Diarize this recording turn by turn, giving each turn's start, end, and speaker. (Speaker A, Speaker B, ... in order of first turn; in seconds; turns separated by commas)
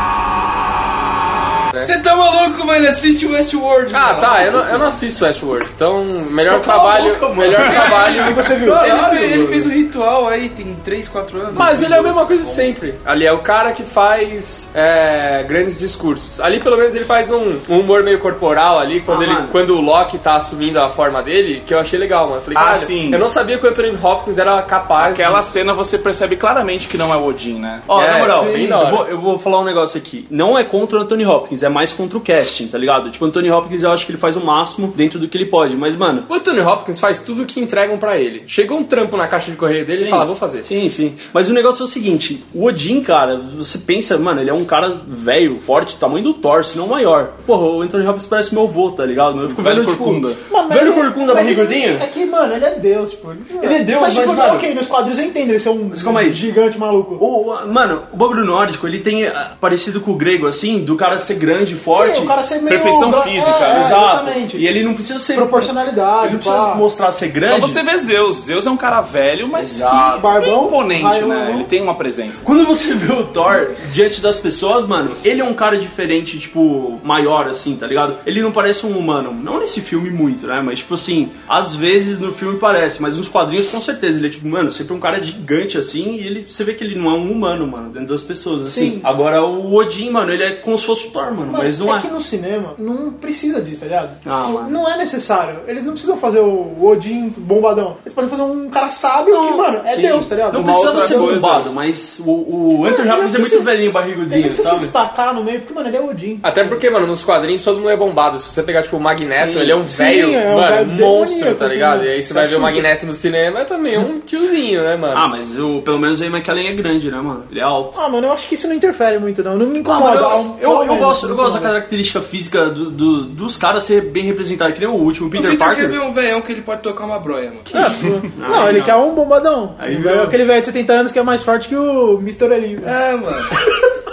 Speaker A: 1.8-5.0, Speaker B: 3.9-8.4, Speaker C: 6.5-9.7, Speaker A: 7.7-11.7, Speaker D: 8.1-8.9, Speaker C: 11.5-12.8, Speaker B: 11.5-25.5, Speaker C: 19.1-19.6, Speaker E: 22.5-23.2, Speaker E: 25.0-27.9, Speaker C: 27.9-36.3, Speaker B: 27.9-29.1, Speaker D: 28.3-28.8, Speaker B: 36.3-40.7, Speaker C: 40.0-52.1, Speaker E: 49.4-50.4, Speaker D: 50.5-57.2, Speaker C: 53.6-54.7, Speaker C: 55.9-56.5, Speaker C: 57.2-62.4, Speaker D: 61.9-64.7, Speaker E: 62.7-64.0, Speaker C: 63.6-67.8, Speaker D: 65.3-66.9, Speaker E: 67.4-72.5, Speaker C: 69.5-70.3, Speaker D: 70.0-71.7, Speaker C: 72.4-92.1, Speaker D: 88.7-89.1, Speaker D: 91.5-101.5, Speaker C: 94.2-94.8, Speaker C: 99.3-104.9, Speaker E: 100.5-101.7, Speaker D: 102.8-106.8, Speaker B: 106.4-115.3, Speaker C: 109.4-109.8, Speaker D: 109.9-112.9, Speaker C: 115.1-118.0, Speaker D: 118.0-121.8, Speaker C: 119.8-126.0, Speaker A: 125.3-128.1, Speaker D: 127.7-132.9, Speaker C: 127.8-129.1, Speaker C: 129.8-130.4, Speaker A: 132.8-133.5